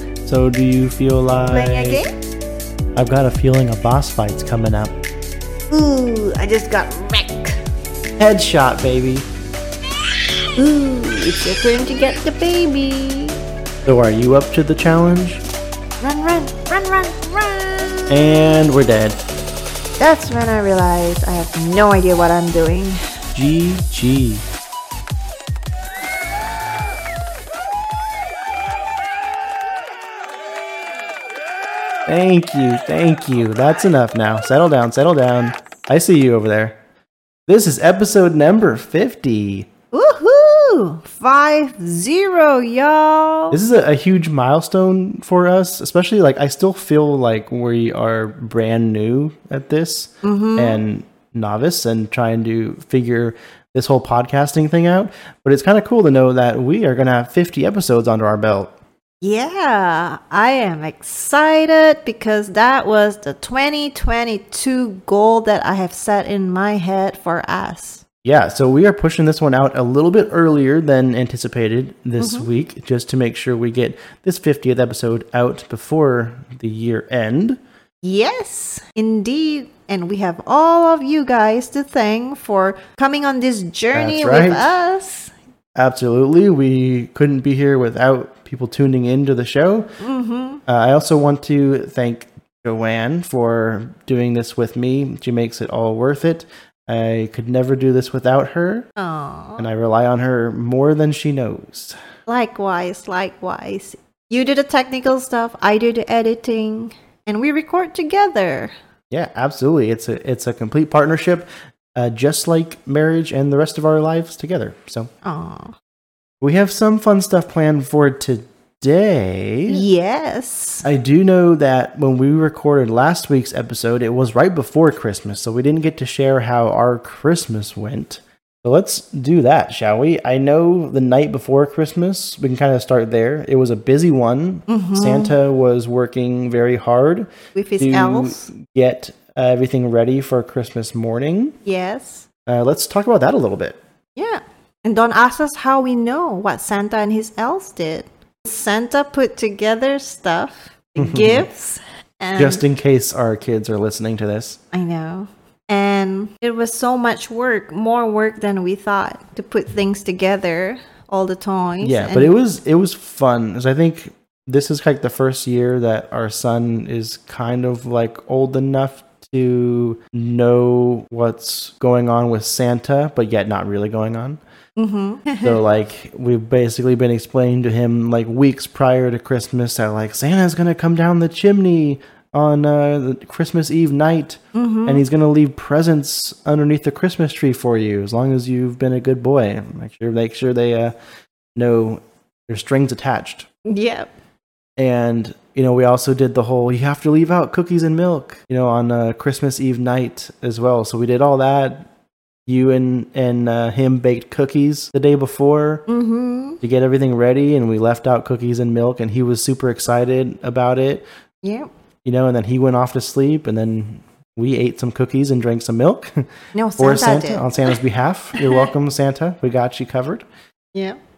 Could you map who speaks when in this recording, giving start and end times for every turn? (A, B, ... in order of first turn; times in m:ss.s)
0:00.2-0:02.0 A
0:01.5-0:02.1 B
0:03.0-0:05.0 A
0:05.7-0:07.6 B
0:08.2-0:09.3 A
0:10.6-0:13.4 B
0:13.9-0:15.4 A
0:16.0-0:18.4 B
0:18.1-0:19.3 A
0:20.0-0:23.1 B
0:23.3-0:24.4 A
0:32.1-0:36.8 A
0:37.5-0:39.7 A
0:39.9-0:43.6 B
0:43.5-0:58.7 A
0:50.2-0:50.8 B
0:59.2-1:08.0 B
1:08.2-1:17.6 A
1:12.2-1:12.5 B
1:18.0-1:25.3 B
1:23.9-1:24.7 A
1:25.8-1:29.9 A
1:30.0-1:30.6 B
1:30.7-1:38.9 A
1:39.0-1:39.7 B
1:39.6-1:42.0 A
1:42.3-1:48.7 B
1:49.1-1:55.1 A
1:55.2-1:55.8 B
1:56.4-1:59.8 A
1:59.7-2:00.9 B
2:00.8-2:21.6 A
2:14.7-2:15.3 B
2:17.6-2:18.5 B
2:21.6-2:22.3 B
2:22.5-2:23.8 A
2:24.2-2:32.6 B
2:31.0-2:31.5 A
2:32.4-2:34.6 A
2:34.7-2:42.3 B
2:41.8-2:54.4 A
2:54.8-2:55.6 B
2:55.4-3:10.9 A
3:04.5-3:05.0 B
3:11.6-3:13.5 A
3:13.7-3:14.1 B
3:14.8-3:21.9 A
3:22.5-3:25.8 A
3:25.9-3:26.6 B
3:26.6-3:31.0 A
3:31.4-3:31.7 B
3:32.0-3:36.3 A
3:36.5-3:37.8 B
3:36.8-3:40.2 A
3:38.4-3:38.7 B